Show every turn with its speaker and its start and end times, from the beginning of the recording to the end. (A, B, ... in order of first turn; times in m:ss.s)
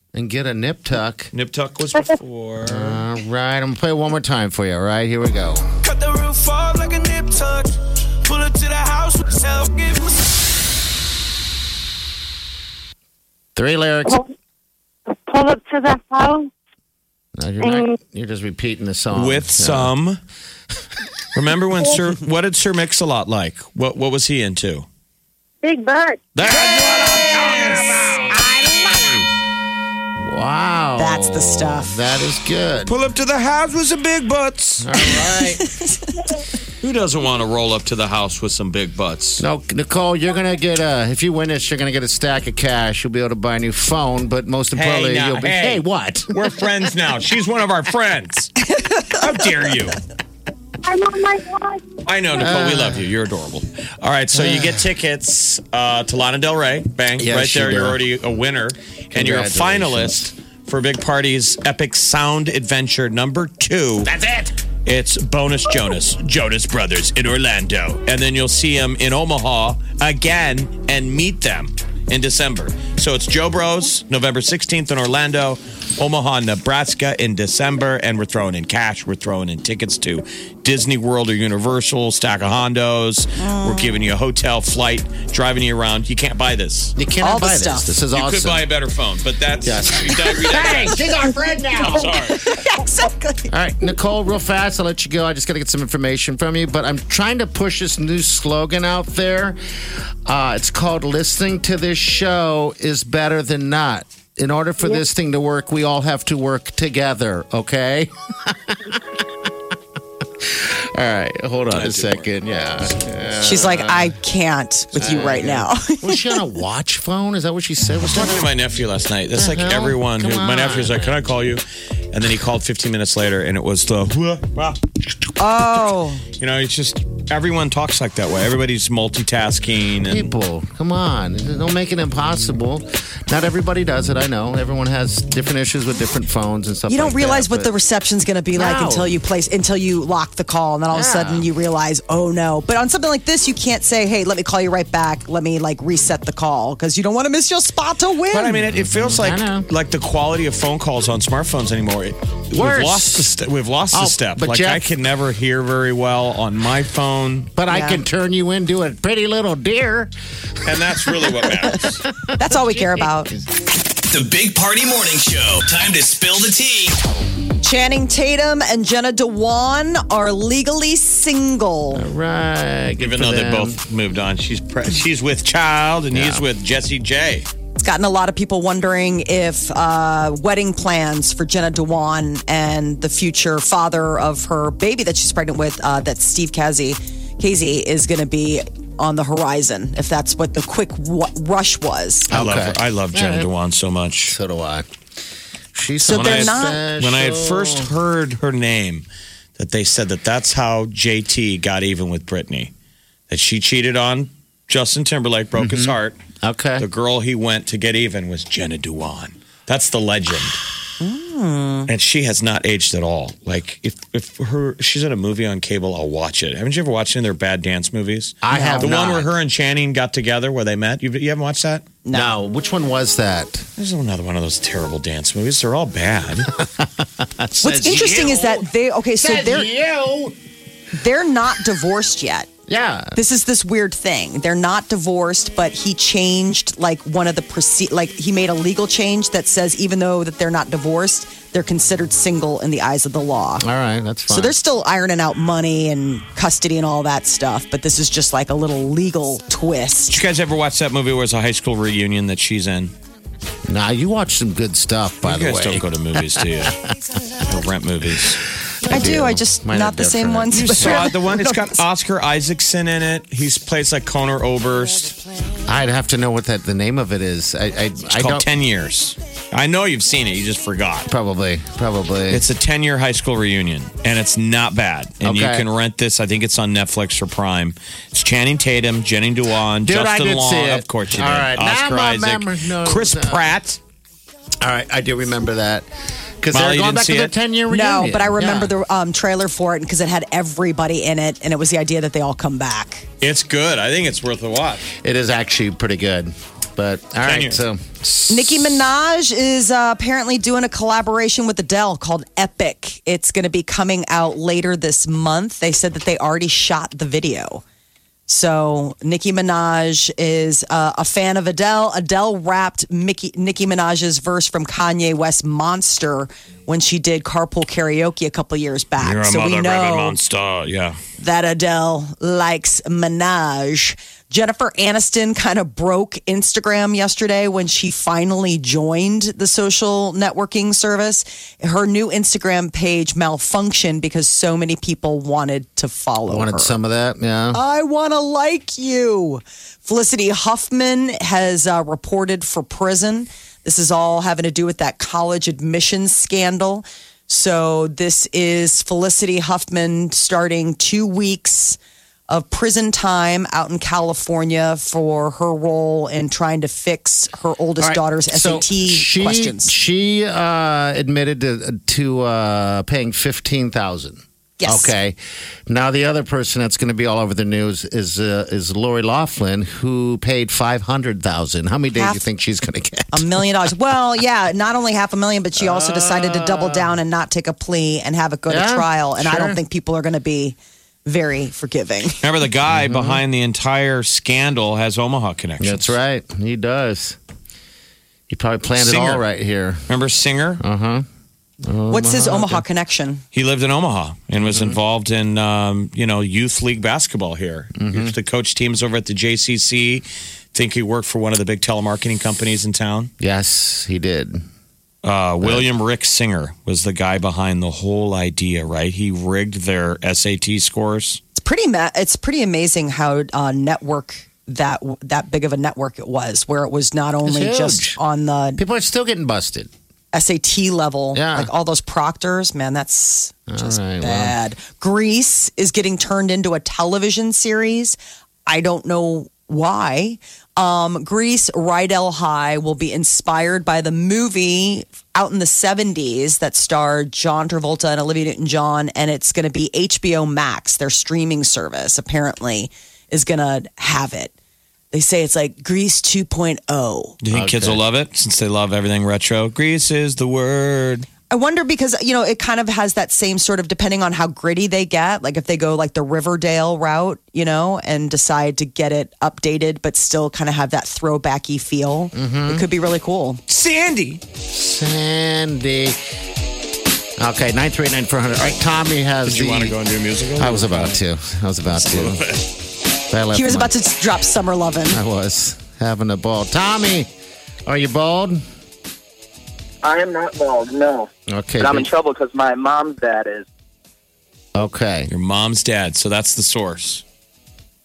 0:00.1-0:01.3 A
0:01.3-0:03.0 B
0:01.9-0:02.2 C
0:02.6-0:05.6 A
0:05.9-0:10.3 D
0:13.6-0:14.2 A
0:15.1-0:16.5 C
0:17.4-0:19.9 A
0:17.6-0:17.9 C
0:19.1-0:20.2 B
0:21.3-0:24.8 B
0:25.6-0:26.2 C
0:26.3-0:29.2 B
0:26.5-0:29.2 A
0:30.2-0:32.9 A
0:31.0-0:32.0 E
0:32.8-0:35.2 B
0:34.8-0:35.6 A
0:35.1-0:36.3 E
0:36.8-0:39.4 B
0:39.4-0:46.3 A
0:44.7-0:50.0 B
0:50.8-0:52.0 C
0:52.0-1:04.1 B
0:52.4-0:53.0 A
0:54.3-0:54.9 A
0:57.2-0:58.0 A
0:59.1-1:00.3 A
1:04.0-1:04.5 A
1:04.8-1:26.9 B
1:23.4-1:24.0 E
1:27.0-1:28.6 A
1:27.2-1:27.9 E
1:28.1-1:31.1 B
1:29.6-1:32.2 A
1:31.8-1:32.5 B
1:32.2-1:33.5 E
1:33.5-1:39.6 A
1:40.3-1:49.0 A
1:50.4-1:54.1 A
1:51.7-1:52.3 B
1:53.4-1:56.4 E
1:54.9-1:58.5 A
1:58.1-2:04.8 B
1:59.3-2:01.1 A
2:05.4-2:06.2 E
2:06.4-2:10.3 B
2:10.1-2:17.7 A
2:16.9-2:28.6 E
2:18.5-2:19.1 A
2:20.9-2:21.5 A
2:28.3-2:37.5 B
2:28.6-2:29.7 A
2:32.5-2:33.3 A
2:33.9-2:34.9 A
2:37.6-2:40.1 A
2:37.7-2:38.0 E
2:40.6-2:42.0 B
2:42.2-2:43.4 A
2:42.4-2:43.3 E
2:44.1-2:47.0 F
2:47.6-2:52.0 E
2:51.9-2:53.8 A
2:53.0-2:57.5 B
2:56.1-2:56.4 A
2:57.8-3:12.3 E
3:12.3-3:13.5 A
3:12.3-3:14.4 B
3:14.3-3:14.8 A
3:15.7-3:17.9 A
3:16.0-3:16.8 E
3:16.1-3:19.0 B
3:19.6-3:22.7 B
3:23.3-3:26.2 B
3:25.6-3:26.8 A
3:26.8-3:30.6 B
3:31.0-3:31.9 E
3:31.9-3:41.8 B
3:38.4-3:39.3 A
3:38.5-3:38.9 E
3:42.0-3:42.3 E
3:42.1-3:43.7 A
3:43.8-3:46.5 B
3:46.6-3:50.4 A
3:47.6-3:49.7 E
3:50.9-3:52.5 E
3:52.7-3:53.2 A
3:53.1-4:03.6 E
4:03.6-4:04.5 A
4:04.3-4:10.2 E
4:10.1-4:12.9 B
4:13.7-4:16.9 A
4:15.2-4:16.8 B
4:17.4-4:18.4 B
4:18.8-4:21.1 A
4:18.9-4:21.7 E
4:20.5-4:25.2 B
4:25.7-4:28.4 A
4:28.1-4:31.1 B
4:31.1-4:32.4 A
4:32.3-4:43.8 B
4:35.2-4:35.7 A
4:39.8-4:43.5 A
4:44.6-4:45.8 A
4:46.4-4:48.7 A
4:46.5-4:47.3 B
4:47.7-4:53.1 E
4:53.2-4:54.9 B
4:55.0-4:58.4 A
4:57.2-4:57.6 B
4:58.3-5:07.6 E
5:08.3-5:20.2 E
5:19.0-5:21.0 B
5:21.2-5:36.8 E
5:36.3-5:37.6 A
5:37.5-5:51.8 E
5:52.3-5:59.7 E
5:57.8-6:05.2 A
6:04.6-6:04.9 E
6:05.7-6:13.4 A
6:12.0-6:12.3 E
6:13.1-6:22.2 E
6:15.6-6:17.0 A
6:18.5-6:19.6 A
6:22.2-6:26.0 B
6:22.7-6:23.2 A
6:25.6-6:27.2 A
6:28.3-6:29.8 A
6:28.8-6:29.2 B
6:29.9-6:30.6 B
6:30.6-6:31.0 A
6:31.6-6:32.6 A
6:31.9-6:33.2 E
6:33.3-6:43.1 B
6:34.4-6:34.8 A
6:37.8-6:38.1 A
6:43.2-6:44.4 A
6:45.0-6:51.2 B
6:45.4-6:45.7 A
6:51.3-6:58.6 E
6:57.2-6:58.0 A
6:58.6-6:59.7 A
7:00.1-7:24.3 E
7:01.1-7:01.5 A
7:03.5-7:04.4 A
7:24.9-7:27.2 E
7:27.2-7:31.1 B
7:27.3-7:27.8 A
7:31.3-7:43.4 E
7:42.1-7:42.6 A
7:43.5-7:44.2 B
7:44.5-7:46.0 A
7:47.2-7:49.7 A
7:49.2-7:51.0 B
7:50.4-7:52.2 A
7:51.7-7:52.5 B
7:53.1-7:53.7 A
7:53.3-7:55.0 E
7:54.9-7:57.1 A
7:57.7-7:58.4 A
7:59.8-8:03.4 G
8:01.3-8:01.9 A
8:04.6-8:05.1 A
8:05.1-8:07.0 B